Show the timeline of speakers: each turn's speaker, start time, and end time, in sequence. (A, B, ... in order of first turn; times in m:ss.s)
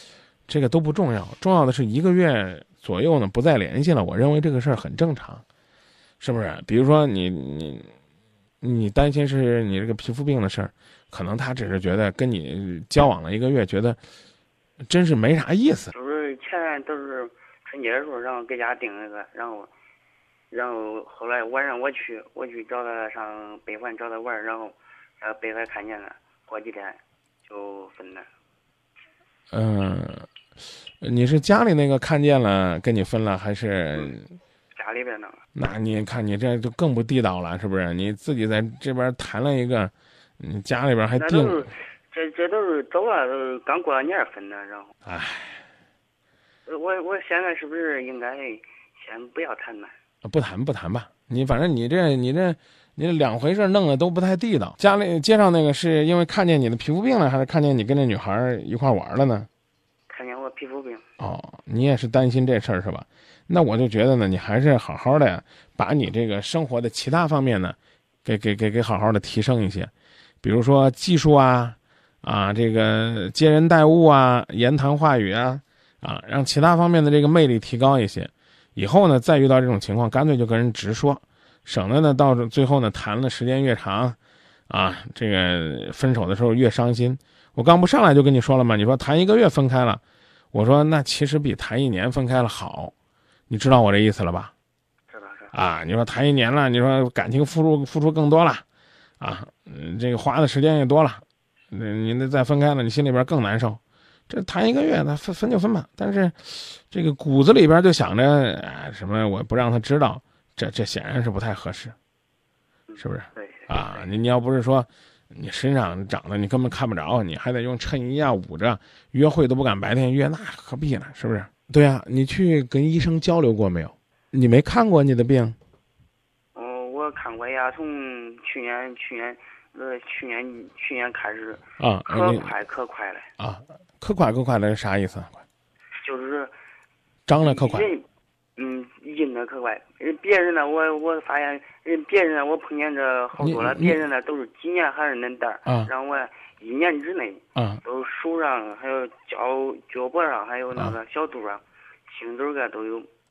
0:00.5-0:05.4 A
0:06.2-0:07.9 A
0:08.6-0:14.0 A
0:14.9-0:15.9 A
0:15.9-0:19.7 B
0:20.5-0:28.3 B
0:29.5-0:30.3 A
0:31.0-0:34.3 A
0:34.7-0:35.4 B
0:35.5-0:41.7 A
0:41.2-0:44.9 B
0:45.0-0:45.6 A
0:46.7-0:49.9 B
0:50.2-0:59.5 A
1:00.1-1:01.0 B
1:01.2-1:24.2 A
1:24.7-1:30.0 A
1:30.5-1:32.9 A
1:33.5-1:34.5 A
1:35.1-1:35.5 B
1:35.5-1:38.6 A
1:39.2-1:51.9 A
1:52.9-1:54.1 B
1:53.0-2:05.6 A
2:06.5-2:13.3 B
2:11.8-2:12.5 A
2:13.4-2:15.4 A
2:16.0-2:16.5 B
2:17.3-2:17.9 A
2:17.4-2:18.0 B
2:18.6-2:33.1 B
2:23.4-2:24.0 A
2:25.6-2:25.9 A
2:27.5-2:27.8 A